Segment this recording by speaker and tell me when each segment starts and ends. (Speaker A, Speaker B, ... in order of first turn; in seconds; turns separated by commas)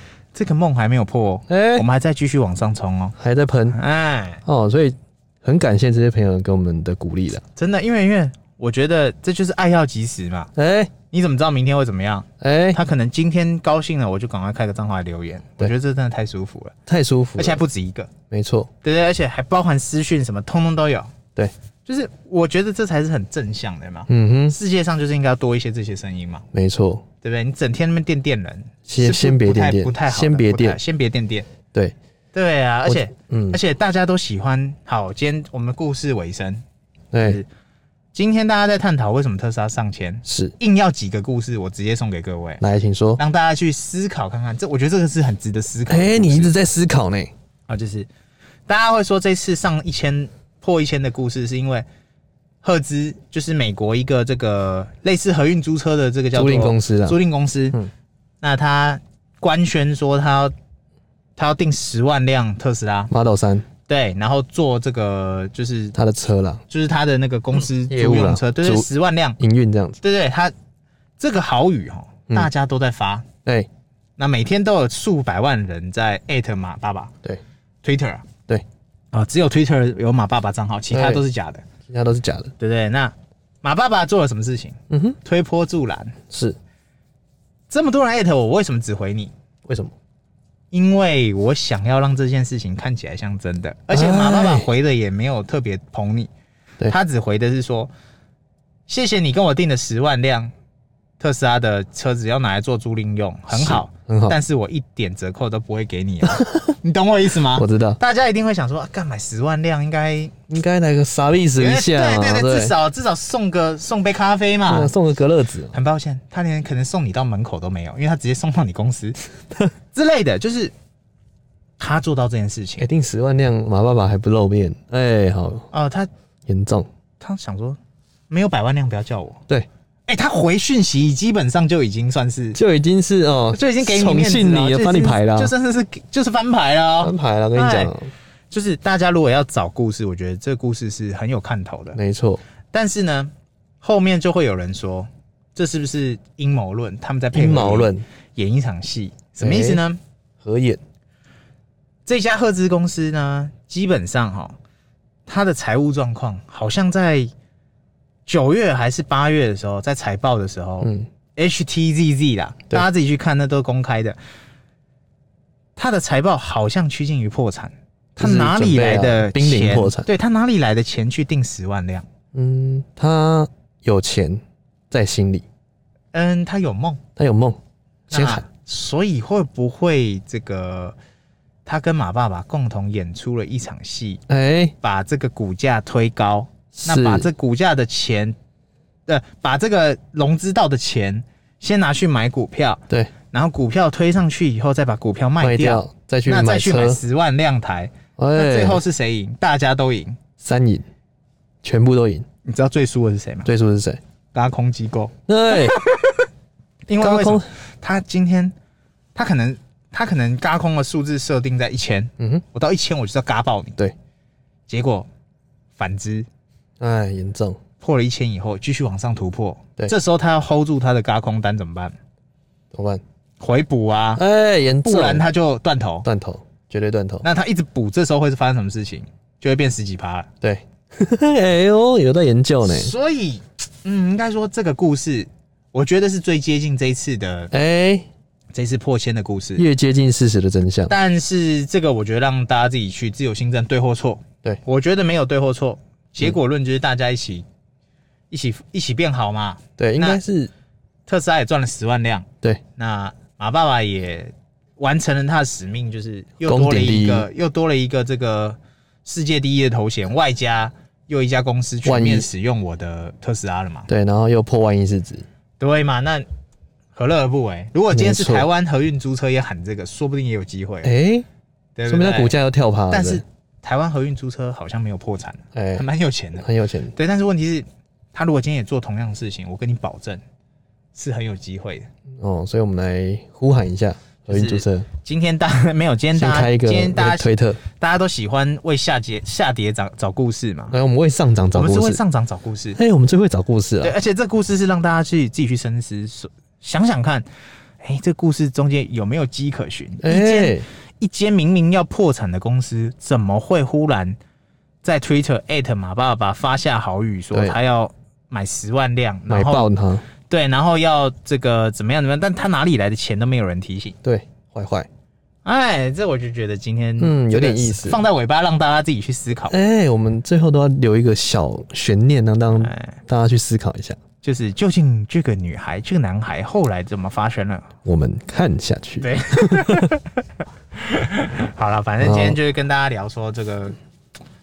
Speaker A: 0.3-3.1, Speaker B: 1.5-1.8, Speaker B: 3.1-3.8, Speaker A: 3.7-4.4, Speaker B: 4.5-7.4, Speaker A: 7.5-10.5, Speaker B: 10.6-10.9, Speaker A: 11.1-16.7, Speaker B: 12.4-12.8, Speaker B: 16.9-17.6, Speaker A: 17.4-18.1, Speaker B: 18.3-18.7, Speaker A: 18.8-21.1, Speaker A: 21.9-26.4, Speaker B: 24.1-24.6, Speaker B: 26.5-27.0, Speaker A: 27.2-31.5, Speaker B: 28.9-30.8, Speaker A: 32.3-36.6, Speaker B: 32.9-33.6, Speaker B: 37.1-37.4, Speaker A: 37.2-37.5, Speaker A: 38.1-42.6, Speaker B: 40.2-40.5, Speaker B: 42.6-43.2, Speaker A: 43.2-46.5, Speaker B: 45.9-47.3, Speaker A: 47.7-48.1, Speaker A: 48.7-51.9, Speaker A: 52.6-57.8, Speaker B: 56.3-57.2, Speaker A: 58.4-60.5, Speaker A: 61.4-63.1, Speaker B: 63.1-63.6, Speaker A: 63.9-65.9, Speaker B: 65.9-66.6, Speaker A: 66.7-69.4, Speaker B: 67.9-68.9, Speaker B: 69.4-70.0, Speaker A: 70.0-70.5, Speaker A: 71.2-73.2, Speaker A: 74.2-77.1, Speaker A: 77.8-78.3, Speaker A: 79.1-81.6, Speaker B: 80.9-81.2, Speaker B: 81.9-82.5, Speaker A: 82.6-86.2, Speaker B: 84.9-85.2, Speaker B: 86.3-86.6, Speaker A: 87.7-89.3, Speaker B: 89.7-89.9, Speaker A: 90.7-96.3, Speaker B: 93.9-94.7, Speaker A: 96.8-97.9, Speaker A: 98.9-100.5, Speaker A: 101.2-110.3, Speaker B: 103.5-104.4, Speaker B: 106.2-106.7, Speaker B: 107.5-108.0, Speaker B: 110.5-112.7, Speaker A: 111.5-114.9, Speaker B: 114.7-115.7, Speaker A: 115.7-119.2, Speaker A: 119.9-120.7, Speaker A: 121.8-122.9, Speaker B: 122.8-125.7, Speaker A: 125.7-126.1, Speaker B: 126.5-126.9, Speaker A: 127.2-127.8, Speaker A: 128.3-129.4, Speaker A: 130.1-132.6, Speaker B: 132.5-135.5, Speaker A: 133.5-137.9, Speaker B: 137.0-138.1, Speaker A: 138.5-142.0, Speaker B: 141.9-142.4, Speaker A: 142.7-150.0, Speaker B: 147.3-148.0, Speaker B: 149.4-149.8, Speaker B: 150.4-150.8, Speaker A: 152.1-154.6, Speaker A: 155.2-157.3, Speaker A: 158.3-164.2, Speaker B: 160.8-161.1, Speaker A: 165.8-172.1, Speaker B: 168.2-170.1, Speaker B: 172.3-175.4, Speaker A: 176.1-177.0, Speaker B: 177.2-177.6, Speaker B: 178.1-178.4, Speaker A: 178.1-180.9, Speaker A: 181.6-184.2, Speaker B: 184.3-184.7, Speaker A: 184.8-188.3, Speaker B: 186.7-187.3, Speaker A: 189.1-200.2, Speaker B: 195.4-197.0, Speaker B: 198.2-198.8, Speaker B: 200.4-200.8, Speaker B: 201.6-202.2, Speaker A: 202.4-203.5, Speaker B: 203.4-204.0, Speaker A: 204.3-206.2, Speaker B: 205.3-205.8, Speaker A: 206.9-208.5, Speaker B: 207.0-207.4, Speaker A: 209.1-213.8, Speaker B: 212.2-212.4, Speaker A: 214.7-215.1, Speaker A: 215.8-216.3, Speaker B: 216.8-217.6, Speaker A: 217.8-221.9, Speaker B: 222.7-223.0, Speaker A: 223.4-224.2, Speaker B: 224.2-225.2, Speaker A: 224.8-226.1, Speaker B: 226.0-227.2, Speaker A: 227.2-230.3, Speaker B: 230.4-232.9, Speaker A: 232.6-237.5, Speaker B: 237.5-238.1, Speaker A: 238.5-239.6, Speaker B: 239.6-240.9, Speaker A: 240.9-247.4, Speaker A: 248.3-250.2, Speaker B: 249.8-250.5, Speaker A: 251.1-263.9, Speaker B: 256.4-257.3, Speaker B: 261.8-262.3, Speaker B: 263.9-265.2, Speaker A: 265.6-266.2, Speaker A: 266.9-270.9, Speaker B: 267.9-268.5, Speaker B: 270.8-271.2, Speaker A: 271.8-272.4, Speaker B: 271.9-273.2, Speaker A: 272.9-280.2, Speaker B: 275.5-275.8, Speaker B: 276.4-276.9, Speaker A: 280.9-281.9, Speaker B: 282.2-284.9, Speaker A: 284.3-290.8, Speaker B: 286.1-287.6, Speaker B: 290.7-292.0, Speaker A: 291.5-292.8, Speaker B: 292.7-293.9, Speaker A: 293.8-297.2, Speaker A: 297.8-304.2, Speaker B: 300.0-300.6, Speaker A: 304.8-309.7, Speaker B: 309.3-310.0, Speaker A: 310.3-313.9, Speaker B: 314.0-314.9, Speaker A: 315.4-319.6, Speaker B: 317.0-318.0, Speaker B: 319.5-324.0, Speaker A: 322.6-323.0, Speaker A: 324.2-327.7, Speaker B: 327.8-329.9, Speaker A: 329.0-330.2, Speaker A: 330.7-333.8, Speaker B: 332.0-332.4